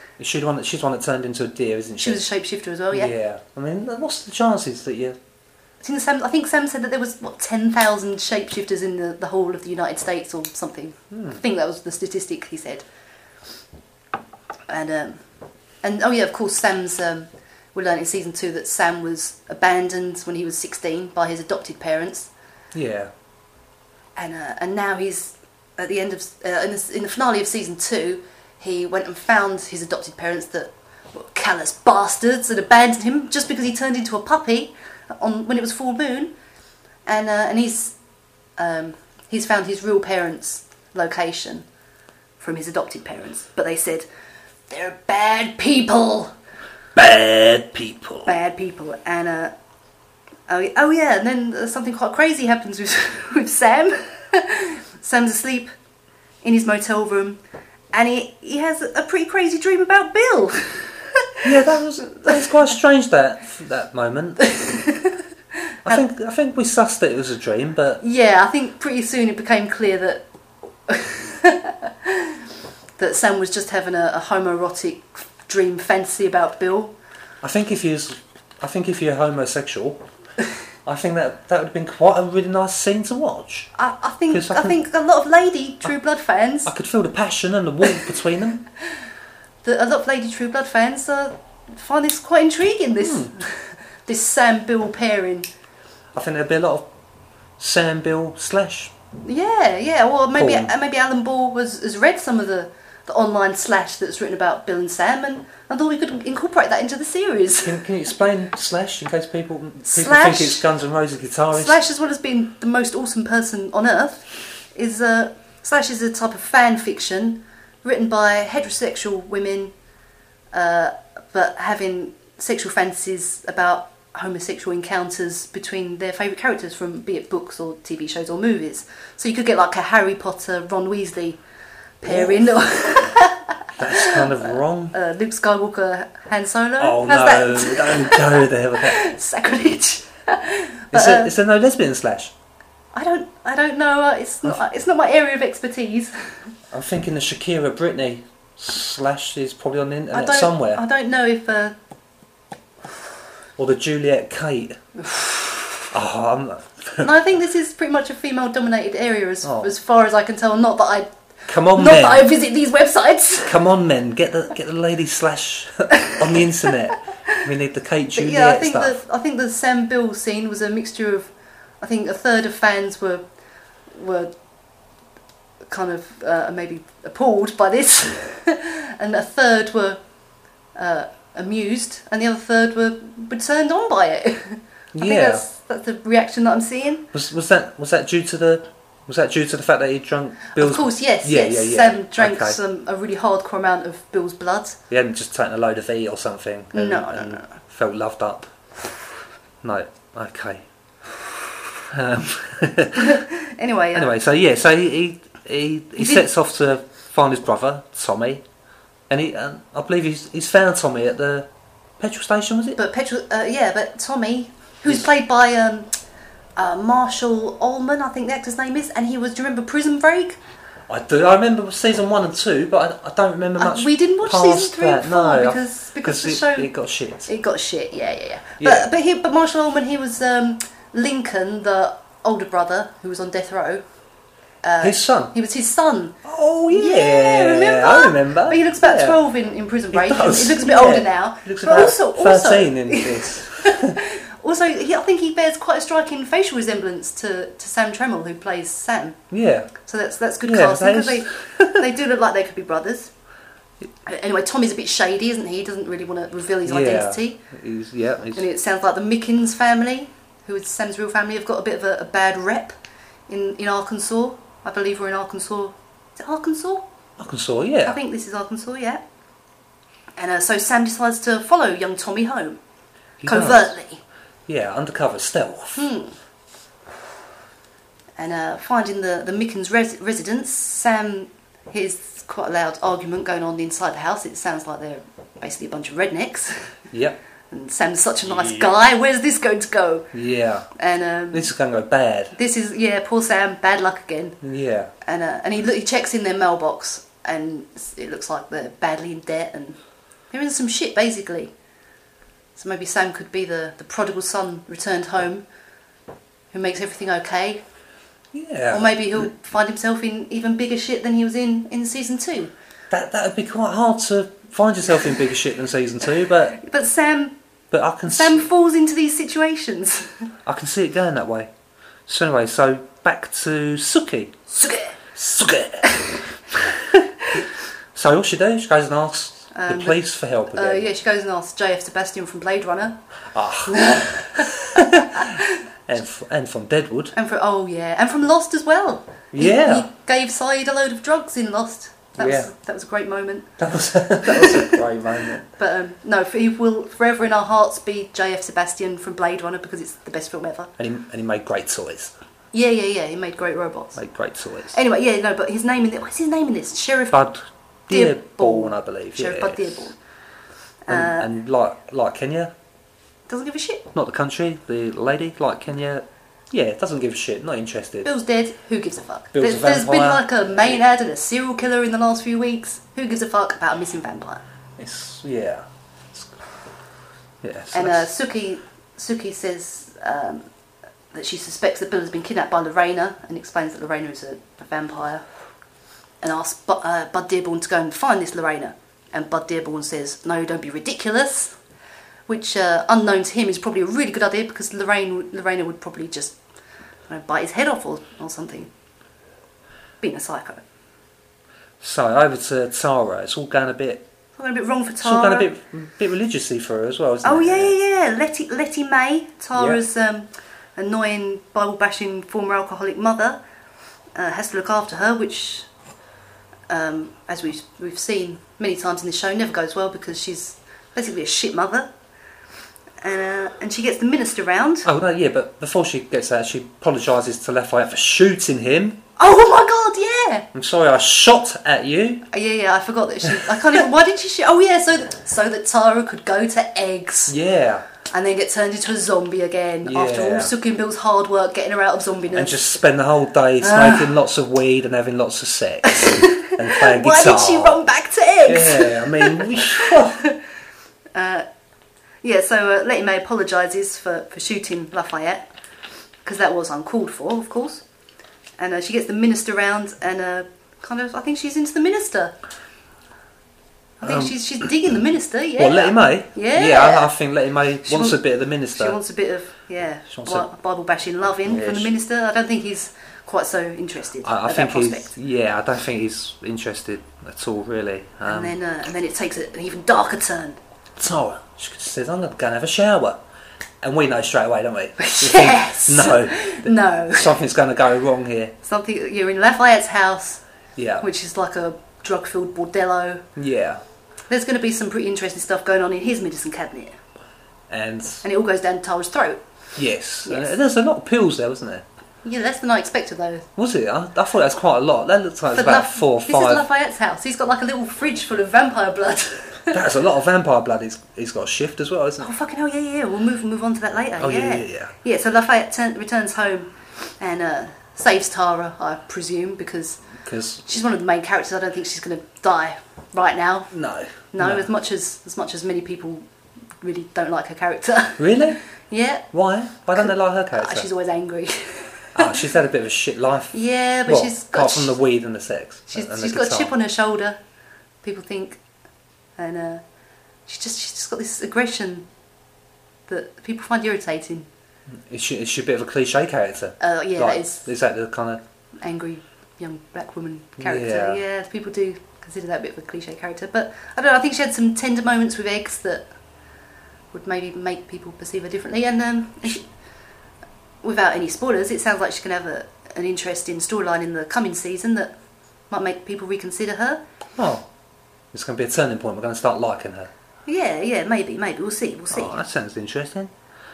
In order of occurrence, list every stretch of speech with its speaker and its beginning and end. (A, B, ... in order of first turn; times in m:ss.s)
0:00.2-0:02.2 A
0:02.0-0:03.1 B
0:02.9-0:05.2 A
0:05.8-0:12.8 B
0:11.1-0:11.4 A
0:14.7-0:15.2 B
0:15.8-0:22.3 B
0:22.7-0:23.1 A
0:24.2-0:36.3 B
0:37.0-0:38.0 B
0:38.6-0:41.6 B
0:42.4-0:44.0 B
0:44.7-0:46.3 B
0:46.9-0:48.4 A
0:48.2-0:49.5 B
0:50.5-0:55.7 B
0:56.4-0:57.4 B
0:57.9-1:02.4 B
1:01.4-1:04.8 A
1:04.4-1:05.1 B
1:05.8-1:08.0 A
1:08.0-1:10.2 B
1:10.8-1:12.4 B
1:13.0-1:16.9 B
1:17.4-1:20.0 A
1:20.8-1:23.7 A
1:23.8-1:26.7 B
1:24.3-1:24.8 A
1:26.6-1:28.6 A
1:29.6-1:35.5 B
1:33.0-1:33.3 A
1:36.1-1:36.9 A
1:37.6-1:38.9 A
1:39.2-1:47.8 B
1:40.4-1:40.7 A
1:47.6-1:51.8 A
1:49.8-1:50.6 B
1:51.5-1:59.7 B
2:00.5-2:11.4 B
2:12.0-2:21.3 B
2:12.0-2:12.6 A
2:13.8-2:14.9 A
2:16.8-2:19.0 A
2:20.9-2:22.3 A
2:22.9-2:26.4 B
2:26.7-2:30.8 A
2:30.1-2:31.8 B
2:33.6-2:34.8 A
2:35.0-2:35.8 B
2:35.9-2:37.1 A
2:37.0-2:43.6 B
2:39.4-2:39.7 A
2:41.5-2:42.3 A
2:43.4-2:49.0 A
2:48.1-2:51.3 B
2:51.8-2:53.2 B
2:53.9-2:54.3 B
2:55.7-3:00.0 B
3:00.7-3:07.0 B
3:04.9-3:05.4 A
3:07.1-3:12.6 A
3:10.5-3:14.8 B
3:14.9-3:18.5 A
3:16.7-3:17.5 B
3:19.6-3:20.6 A
3:21.9-3:23.2 A
3:23.0-3:24.1 B
3:23.9-3:28.4 A
3:26.0-3:26.2 B
3:29.1-3:31.5 A
3:32.0-3:32.8 A
3:32.8-3:35.9 B
3:36.6-3:40.4 B
3:40.9-3:47.3 A
3:43.6-3:46.7 B
3:47.2-3:53.8 B
3:48.6-3:48.9 A
3:54.6-3:56.2 B
3:54.8-3:55.3 A
3:56.2-3:59.2 A
3:56.7-4:09.2 B
3:59.9-4:04.0 A
4:09.3-4:09.7 A
4:09.8-4:13.1 B
4:10.4-4:11.8 A
4:14.0-4:17.4 B
4:16.6-4:18.4 A
4:18.3-4:22.8 B
4:23.3-4:26.8 B
4:27.2-4:28.0 A
4:27.8-4:29.0 B
4:30.2-4:32.6 B
4:33.2-4:33.7 A
4:33.2-4:34.0 B
4:34.5-4:35.9 A
4:35.8-4:36.1 B
4:38.2-4:46.7 B
4:46.9-4:47.2 A
4:47.5-4:50.1 B
4:48.4-4:48.7 A
4:50.1-4:50.7 A
4:50.7-4:51.5 B
4:51.3-4:52.3 A
4:52.3-4:54.4 B
4:54.4-4:54.9 A
4:55.0-4:59.8 B
5:00.3-5:01.5 B
5:02.6-5:05.4 B
5:06.5-5:07.6 B
5:08.3-5:09.2 A
5:08.7-5:12.5 B
5:12.9-5:16.6 A
5:16.5-5:17.3 B
5:17.7-5:18.4 A
5:18.1-5:20.1 B
5:20.4-5:21.5 A
5:22.1-5:24.4 A
5:24.5-5:25.0 B
5:25.1-5:27.4 A
5:25.8-5:26.2 B
5:27.9-5:30.8 A
5:29.5-5:30.0 B
5:30.5-5:33.0 B
5:33.3-5:37.1 A
5:33.7-5:35.5 B
5:37.1-5:43.5 B
5:39.3-5:39.9 A
5:42.2-5:42.5 A
5:43.6-5:45.5 A
5:44.2-5:44.8 B
5:45.5-5:50.7 B
5:50.8-5:52.1 A
5:52.5-5:54.0 B
5:53.9-5:54.8 A
5:54.7-5:57.2 B
5:57.1-5:59.9 A
5:57.9-6:00.0 B
6:00.8-6:01.3 B
6:00.9-6:02.5 A
6:03.3-6:03.9 B
6:03.9-6:08.1 A
6:08.0-6:14.4 B
6:09.3-6:10.8 A
6:14.8-6:16.3 A
6:17.4-6:18.1 A
6:17.7-6:20.4 B
6:21.1-6:25.2 B
6:26.2-6:31.6 B
6:32.3-6:36.4 B
6:37.1-6:38.7 B
6:40.0-6:40.6 B
6:41.8-6:44.0 A
6:44.4-6:45.5 B
6:45.0-6:47.7 A
6:47.2-6:53.4 B
6:54.1-6:55.7 B
6:56.7-7:01.9 B
7:03.0-7:04.9 B
7:04.8-7:09.0 A
7:09.2-7:10.5 B
7:10.5-7:12.3 A
7:12.3-7:17.4 B
7:17.3-7:17.8 A
7:18.1-7:22.6 B
7:19.8-7:20.5 A
7:22.3-7:27.8 A
7:23.6-7:24.1 B
7:25.8-7:30.3 B
7:28.4-7:30.2 A
7:31.1-7:31.4 B
7:32.2-7:35.5 B
7:36.2-7:37.8 B
7:38.6-7:42.4 B
7:44.0-7:47.1 B
7:44.0-7:44.7 A
7:45.6-7:49.0 A
7:47.8-7:48.2 B
7:48.7-7:55.1 B
7:50.1-7:50.5 A
7:51.4-7:51.9 A
7:54.2-7:58.5 A
7:58.2-8:00.6 B
8:01.0-8:03.2 A
8:03.8-8:08.5 A
8:05.0-8:07.3 B
8:08.6-8:10.4 B
8:10.8-8:11.0 A
8:11.0-8:13.2 B
8:13.4-8:13.8 A
8:14.3-8:17.0 B
8:17.7-8:18.2 A
8:18.2-8:19.4 B
8:19.8-8:21.8 A
8:20.2-8:20.5 B
8:22.2-8:23.5 B
8:23.6-8:26.6 A
8:25.5-8:29.8 B
8:29.7-8:32.3 A
8:32.2-8:40.0 B
8:34.2-8:34.9 A
8:40.2-8:40.6 A
8:40.6-8:43.7 B
8:43.7-8:44.7 A
8:44.3-8:46.2 B
8:46.8-8:49.3 B
8:48.2-8:48.6 A
8:49.3-8:50.9 A
8:50.0-8:52.4 B
8:52.2-8:56.7 A
8:53.5-8:55.0 B
8:55.9-8:57.4 B
8:58.0-8:58.6 B
8:59.4-8:59.8 B
9:00.5-9:02.1 B
9:03.1-9:04.5 B
9:04.9-9:08.4 A
9:06.8-9:07.6 B
9:08.8-9:16.1 B
9:10.6-9:11.2 A
9:17.1-9:19.7 B
9:20.8-9:25.1 B
9:25.7-9:27.0 B
9:27.4-9:27.7 A
9:28.3-9:30.1 A
9:30.4-9:32.4 B
9:32.1-9:33.3 A